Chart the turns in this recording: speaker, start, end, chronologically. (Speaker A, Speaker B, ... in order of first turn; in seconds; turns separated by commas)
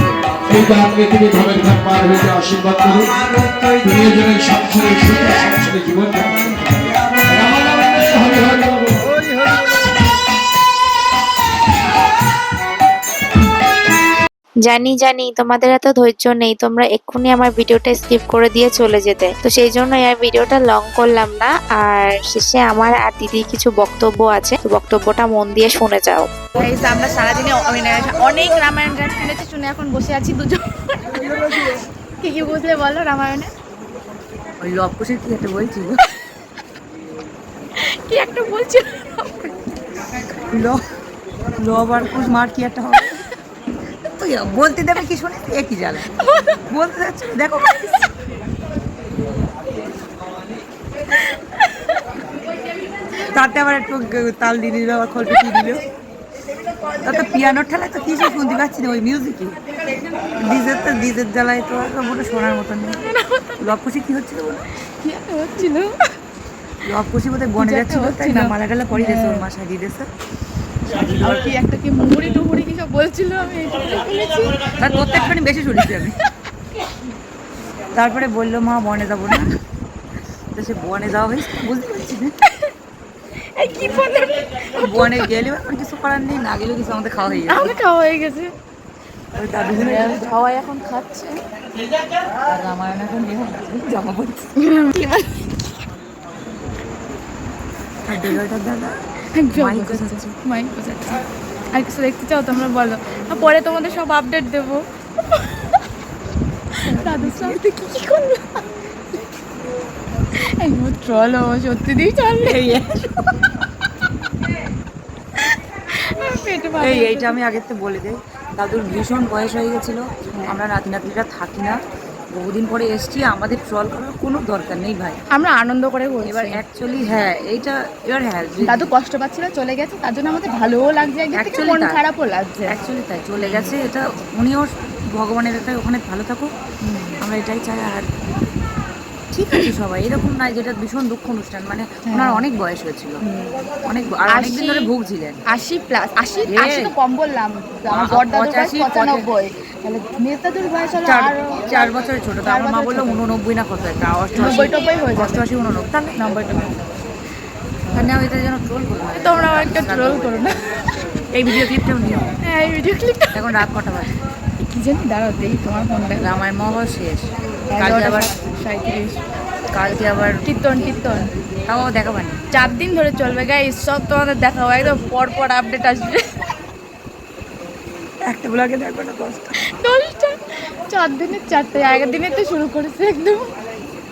Speaker A: 0.5-9.1, Speaker B: 14.6-26.3, Speaker C: 26.6-33.5, Speaker D: 34.6-36.0, Speaker C: 37.8-39.5, Speaker D: 40.4-40.8, Speaker D: 41.6-43.3, Speaker D: 44.1-48.0, Speaker C: 46.1-46.6, Speaker D: 53.3-55.8, Speaker D: 57.0-59.6, Speaker D: 60.4-63.0, Speaker C: 63.1-63.6, Speaker D: 63.6-64.7, Speaker C: 65.0-66.1, Speaker D: 66.8-70.1, Speaker C: 67.6-69.5, Speaker D: 71.0-71.3, Speaker C: 71.1-74.7, Speaker D: 74.8-76.2, Speaker D: 77.9-79.5, Speaker D: 80.5-82.3, Speaker C: 83.5-85.3, Speaker D: 84.6-87.9, Speaker C: 87.5-88.5, Speaker D: 89.3-90.4, Speaker C: 89.7-91.4, Speaker D: 92.5-94.5, Speaker C: 94.6-95.6, Speaker D: 98.1-98.9, Speaker C: 99.3-105.8, Speaker D: 99.5-100.2, Speaker C: 106.8-108.7, Speaker D: 106.8-107.6, Speaker C: 110.3-112.8, Speaker D: 112.4-113.2, Speaker C: 115.5-117.4, Speaker D: 116.8-121.8, Speaker C: 120.3-120.6, Speaker D: 122.3-125.2, Speaker C: 125.3-126.6, Speaker D: 126.2-128.9, Speaker C: 128.6-132.8, Speaker D: 131.3-132.0, Speaker D: 132.6-136.5, Speaker C: 136.8-137.2, Speaker D: 137.2-138.1, Speaker D: 139.3-143.2, Speaker C: 142.1-142.4, Speaker C: 143.2-143.7, Speaker D: 143.8-145.4, Speaker C: 144.2-144.9, Speaker C: 145.5-153.2, Speaker D: 146.4-146.9, Speaker D: 147.9-149.3, Speaker D: 151.0-156.6, Speaker C: 154.3-155.4, Speaker C: 156.2-156.8, Speaker D: 157.9-160.4, Speaker C: 159.2-161.0, Speaker D: 161.3-162.3, Speaker C: 162.4-163.6, Speaker D: 163.3-164.1, Speaker C: 164.6-166.3, Speaker D: 166.1-168.3, Speaker C: 167.7-169.2, Speaker D: 169.7-170.9, Speaker C: 170.4-171.3, Speaker D: 171.7-172.4, Speaker C: 172.5-176.5, Speaker D: 178.2-179.6, Speaker C: 179.6-183.4